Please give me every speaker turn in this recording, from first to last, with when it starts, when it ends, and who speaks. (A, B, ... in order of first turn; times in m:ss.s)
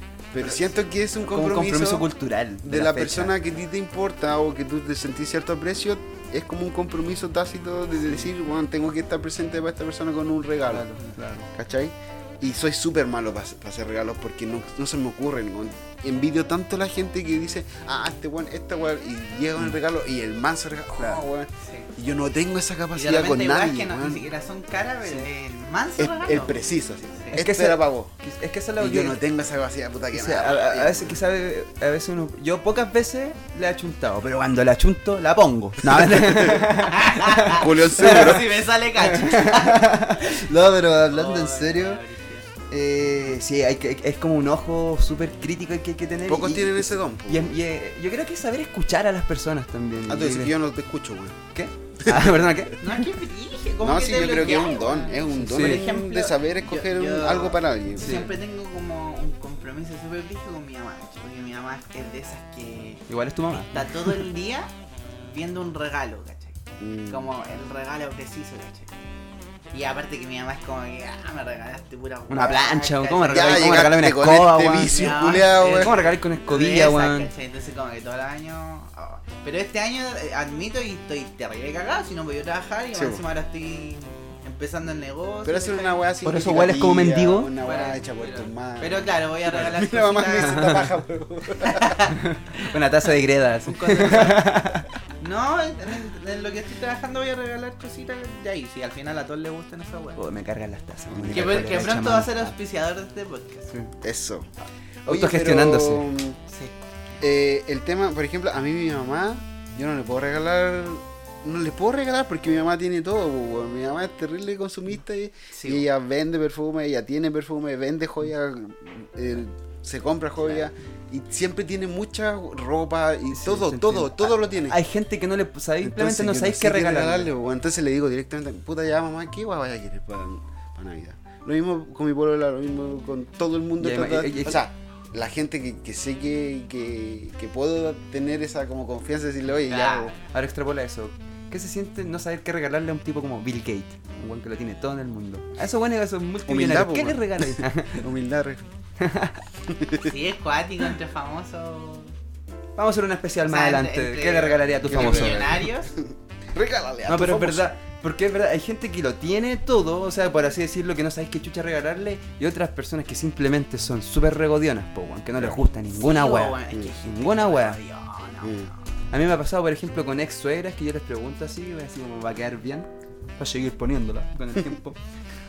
0:00.3-0:02.1 A
0:01.3-0:03.4 B
0:02.6-0:10.9 A
0:10.7-0:11.5 B
0:11.5-0:24.2 A
0:21.0-0:21.2 B
0:21.6-0:21.9 C
0:22.9-0:26.6 C
0:25.0-0:25.3 B
0:26.0-0:28.1 A
0:27.4-0:29.2 B
0:28.8-0:31.2 A
0:30.1-0:42.0 B
0:36.8-0:40.4 C
0:37.5-0:38.5 A
0:41.0-0:42.5 C
0:42.7-0:50.6 B
0:46.3-0:47.5 A
0:50.1-0:51.4 A
0:51.5-0:53.0 B
0:52.0-0:52.4 A
0:52.8-1:04.7 C
0:53.8-0:58.3 A
0:55.3-0:55.9 B
0:58.0-0:58.3 B
1:03.1-1:04.2 B
1:05.2-1:08.9 C
1:06.8-1:07.3 A
1:09.7-1:13.9 C
1:12.3-1:17.3 B
1:13.3-1:15.9 A
1:14.8-1:26.0 C
1:22.9-1:23.2 A
1:25.4-1:32.0 A
1:26.2-1:27.5 B
1:27.6-1:30.7 C
1:29.5-1:30.9 B
1:31.6-1:32.7 C
1:32.1-1:34.9 B
1:33.7-1:34.6 C
1:35.2-1:40.2 C
1:40.2-1:42.6 B
1:41.1-1:42.0 A
1:41.3-1:43.7 C
1:44.0-1:44.5 A
1:45.1-1:46.1 B
1:45.1-1:46.4 A
1:46.5-1:46.7 C
1:47.2-2:04.8 A
1:55.5-1:55.9 C
2:03.3-2:07.3 B
2:05.8-2:20.2 A
2:13.8-2:14.6 B
2:19.7-2:20.2 C
2:20.3-2:28.0 B
2:26.5-2:28.6 A
2:29.0-2:29.4 B
2:29.7-2:30.1 A
2:30.0-2:32.1 C
2:32.8-2:35.6 B
2:33.5-2:35.9 C
2:34.9-2:37.7 A
2:37.1-2:47.8 B
2:45.9-2:48.8 C
2:48.4-2:48.7 A
2:49.1-2:55.0 B